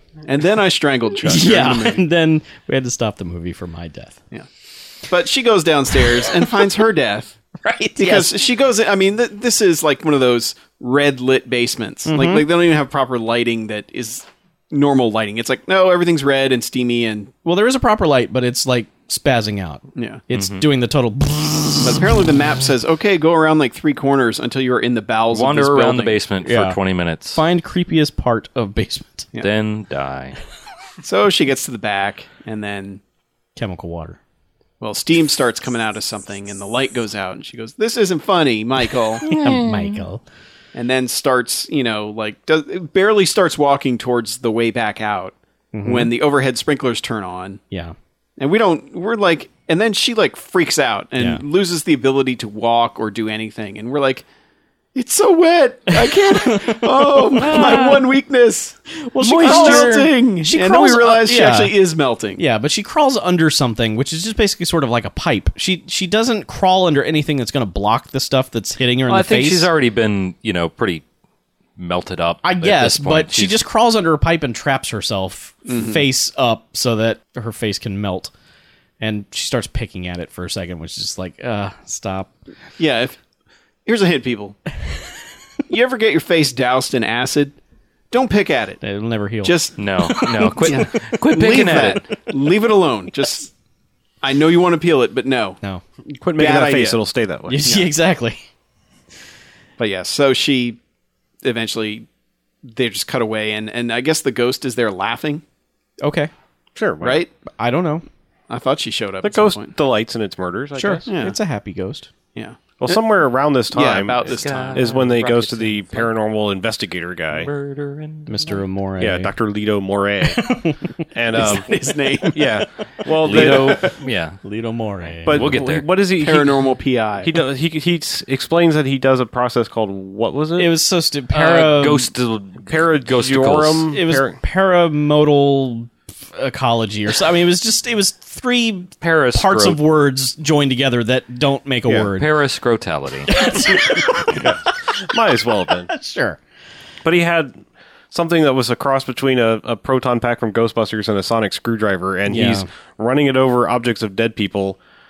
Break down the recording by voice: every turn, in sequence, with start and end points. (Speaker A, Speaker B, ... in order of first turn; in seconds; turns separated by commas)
Speaker A: 0.3-2.0, Speaker B: 1.2-4.2, Speaker A: 5.1-7.4, Speaker B: 7.6-8.3, Speaker A: 8.0-17.3, Speaker B: 12.1-12.5, Speaker B: 17.4-22.2, Speaker A: 19.9-20.2, Speaker C: 20.3-20.7, Speaker A: 21.8-26.2, Speaker C: 25.3-27.4, Speaker B: 26.4-26.8, Speaker B: 27.3-29.3, Speaker C: 29.4-30.4, Speaker A: 31.0-33.0, Speaker B: 33.6-34.2, Speaker A: 34.8-39.3, Speaker B: 39.2-40.2, Speaker C: 39.3-39.9, Speaker A: 40.7-47.6, Speaker B: 45.7-46.1, Speaker A: 48.4-54.2, Speaker B: 51.2-51.4, Speaker A: 55.0-58.8, Speaker B: 56.0-58.1, Speaker B: 59.0-61.8, Speaker C: 59.2-59.9, Speaker A: 59.4-62.4, Speaker B: 62.4-69.7, Speaker C: 69.1-71.0, Speaker C: 71.8-73.6, Speaker B: 72.4-78.3, Speaker A: 75.7-76.1, Speaker B: 79.0-82.3, Speaker A: 82.8-83.2, Speaker A: 83.9-84.6, Speaker A: 85.7-87.6, Speaker A: 88.1-88.8, Speaker B: 88.8-90.8, Speaker A: 89.4-93.5, Speaker C: 89.8-92.0, Speaker A: 94.2-95.6, Speaker D: 96.2-97.7, Speaker A: 96.3-97.0, Speaker B: 97.5-98.4, Speaker A: 97.6-97.9, Speaker A: 99.8-100.8, Speaker A: 101.4-102.1, Speaker A: 102.6-105.4, Speaker B: 106.0-106.3, Speaker D: 106.8-107.2, Speaker A: 107.0-107.3, Speaker B: 107.5-108.0, Speaker A: 108.5-109.8, Speaker D: 109.2-111.1, Speaker B: 110.8-112.1, Speaker A: 111.1-111.4, Speaker A: 112.3-113.0, Speaker D: 112.8-117.5, Speaker A: 113.7-115.2, Speaker C: 114.2-116.1, Speaker C: 117.3-118.6, Speaker B: 118.3-119.3, Speaker D: 119.0-120.5, Speaker B: 120.3-120.9, Speaker D: 121.1-121.7, Speaker A: 121.3-122.6, Speaker D: 122.3-123.9, Speaker C: 123.2-124.4, Speaker B: 123.3-123.9, Speaker B: 124.4-125.5, Speaker D: 125.2-130.7, Speaker C: 125.3-125.9, Speaker A: 126.2-127.3, Speaker B: 130.6-132.1, Speaker C: 131.3-133.9, Speaker D: 132.7-134.4, Speaker B: 133.9-142.4, Speaker C: 139.0-139.8, Speaker D: 141.9-142.1, Speaker C: 142.2-143.3, Speaker B: 143.3-144.6, Speaker D: 144.3-145.9, Speaker B: 145.9-146.4, Speaker D: 147.1-147.6, Speaker D: 148.1-154.8, Speaker B: 152.3-152.7